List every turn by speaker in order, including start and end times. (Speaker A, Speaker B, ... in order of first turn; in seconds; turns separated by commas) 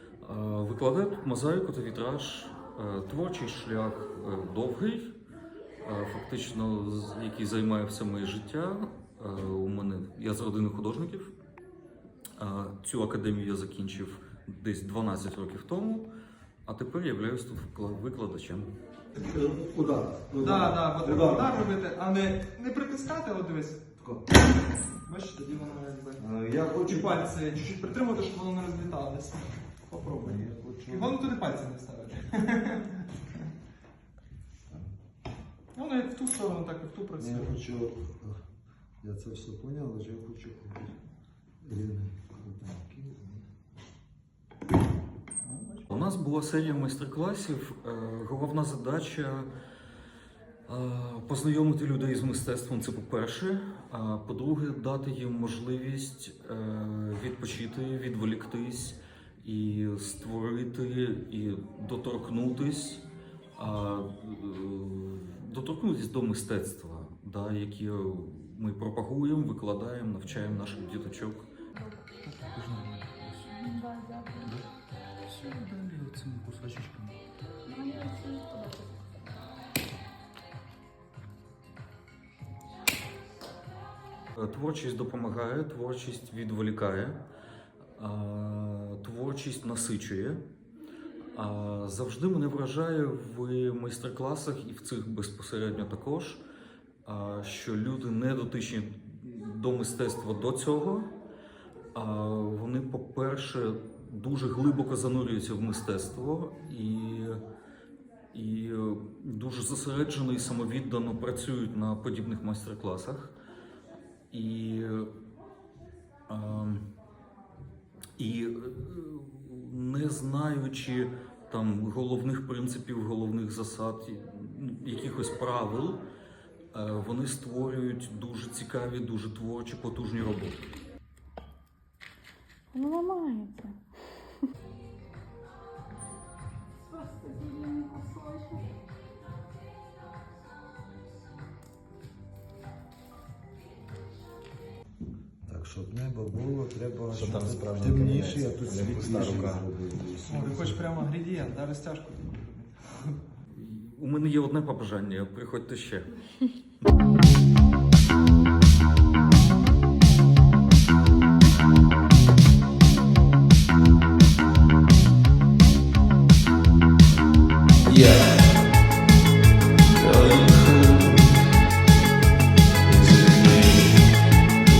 Speaker A: 0.2-5.1, Speaker A: 5.8-11.3, Speaker A: 12.4-16.1, Speaker A: 16.7-18.7, Speaker B: 19.1-21.6, Speaker C: 20.4-23.8, Speaker B: 24.0-24.3, Speaker C: 25.0-26.2, Speaker B: 26.2-27.2, Speaker C: 26.8-29.5, Speaker B: 29.9-31.3, Speaker C: 30.9-33.1, Speaker C: 35.7-37.6, Speaker B: 37.2-38.4, Speaker B: 39.0-41.0, Speaker B: 41.6-43.5, Speaker C: 45.5-45.9, Speaker A: 45.9-49.5, Speaker A: 50.7-63.0, Speaker A: 63.5-71.5, Speaker A: 72.2-73.5, Speaker D: 73.4-74.6, Speaker A: 75.3-77.2, Speaker D: 77.6-79.3, Speaker A: 84.4-87.2, Speaker A: 88.0-90.4, Speaker A: 91.3-96.4, Speaker A: 97.0-101.1, Speaker A: 101.9-107.4, Speaker A: 108.3-113.3, Speaker A: 114.3-115.1, Speaker A: 116.3-116.8, Speaker A: 118.2-126.0, Speaker A: 126.7-130.6, Speaker D: 132.7-133.8, Speaker D: 136.9-138.7, Speaker B: 145.4-150.9, Speaker E: 147.1-149.7, Speaker C: 150.3-153.2, Speaker A: 153.5-156.2, Speaker E: 167.9-168.5, Speaker E: 169.9-171.5, Speaker E: 172.8-174.1